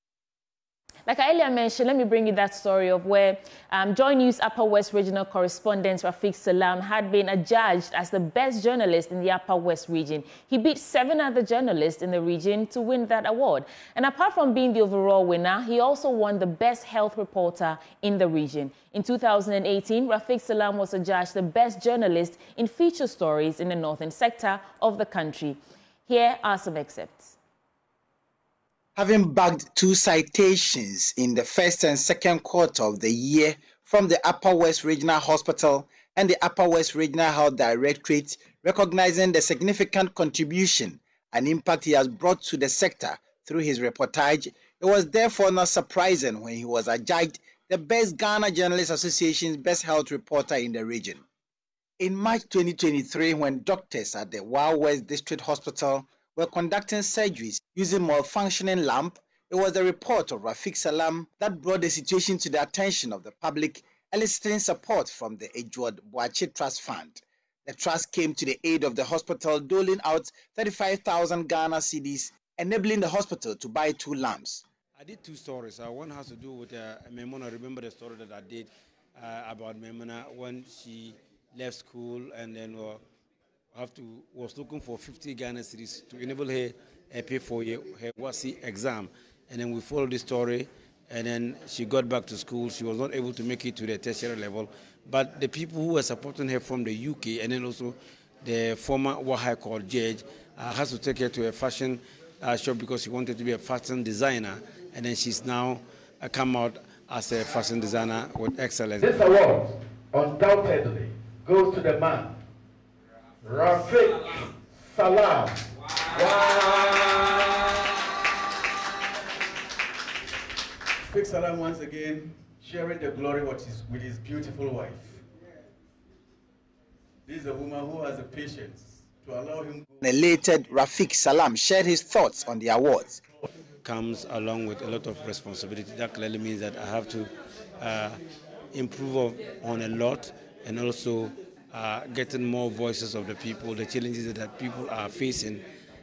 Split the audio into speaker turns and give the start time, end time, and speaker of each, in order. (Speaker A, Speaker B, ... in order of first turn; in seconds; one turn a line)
Speaker A: 1.1-27.4
Speaker B: 29.0-51.2
Speaker B: 52.0-74.6
Speaker C: 75.0-83.0
Speaker C: 83.7-109.2
Speaker D: 109.0-112.4
Speaker D: 113.4-117.3
Speaker D: 121.0-125.2
Speaker D: 127.3-129.9
Speaker B: 130.0-133.2
Speaker C: 133.8-138.2
Speaker C: 138.7-145.6